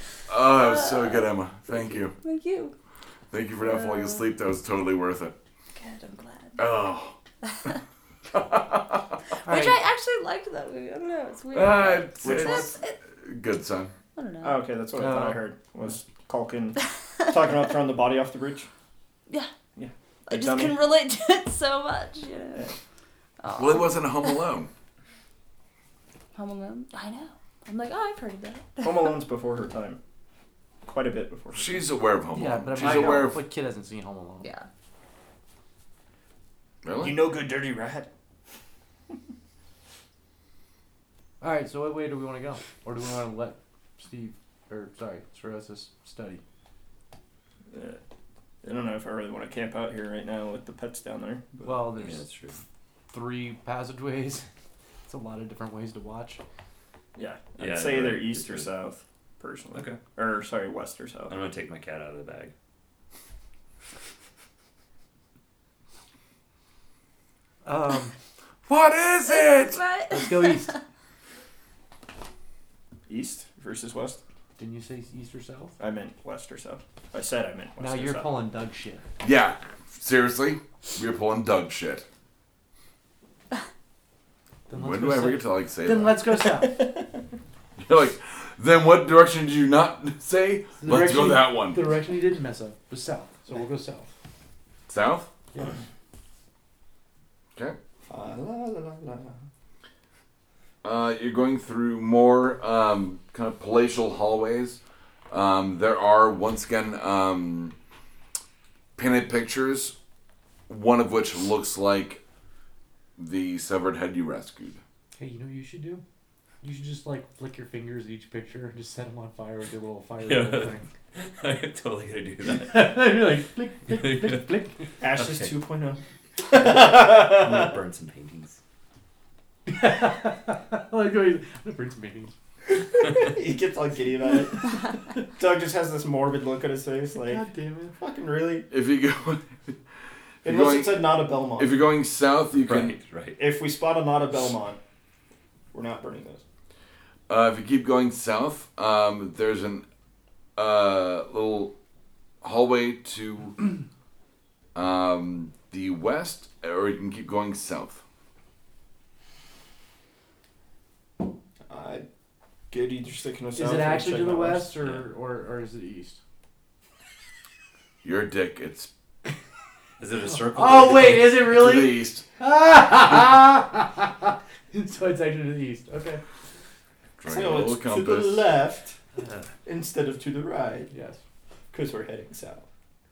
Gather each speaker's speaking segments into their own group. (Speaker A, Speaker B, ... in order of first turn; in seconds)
Speaker A: 0.3-2.1, 3.3-5.3, 6.6-7.2, 8.3-9.0, 11.5-13.9, 23.5-24.7, 31.5-33.4, 36.8-37.3, 68.7-69.8, 79.2-82.0, 84.7-86.2, 87.8-91.9, 94.9-95.3, 100.8-107.8, 109.0-110.0, 110.7-112.2, 113.2-114.8, 138.7-139.8, 140.4-143.0, 147.3-149.8, 150.6-151.7, 152.4-153.6, 154.8-158.0, 168.0-168.9, 171.5-172.2, 177.2-178.5
Speaker B: 0.6-1.2, 2.2-2.7, 3.6-4.2, 5.8-6.6, 9.4-13.0, 14.1-14.7, 20.3-22.7, 23.4-24.4, 26.3-29.2, 34.4-34.7, 69.3-70.8
Speaker C: 9.5-9.8, 15.0-15.4, 32.4-34.5, 41.4-46.4, 51.6-52.2, 53.1-54.5, 55.1-56.4, 67.7-68.1, 70.1-70.8, 74.6-75.8, 77.8-79.0, 84.7-86.9, 90.8-94.1, 115.2-116.0, 116.6-120.9, 122.5-124.8, 129.7-132.3, 137.2-138.0, 163.6-166.2, 170.3-176.2, 180.9-181.2
Speaker D: 12.2-12.8, 14.4-18.7, 19.8-20.8, 28.8-30.0, 30.9-33.3, 37.0-38.1, 47.7-48.0, 48.6-51.9, 57.1-61.4, 73.1-74.2, 75.8-78.3, 98.1-99.4, 125.0-126.0, 126.5-127.5, 132.9-138.7, 140.4-141.8, 143.4-144.8, 145.7-146.4, 161.7-162.1, 162.7-164.7, 177.3-179.0, 179.7-180.9, 181.7-182.7
Speaker E: 52.0-52.6, 57.6-58.7, 59.7-60.0, 61.3-62.5, 120.2-123.1, 123.9-124.5, 125.1-125.5, 126.6-128.6, 142.6-143.4, 170.0-171.4, 179.2-179.5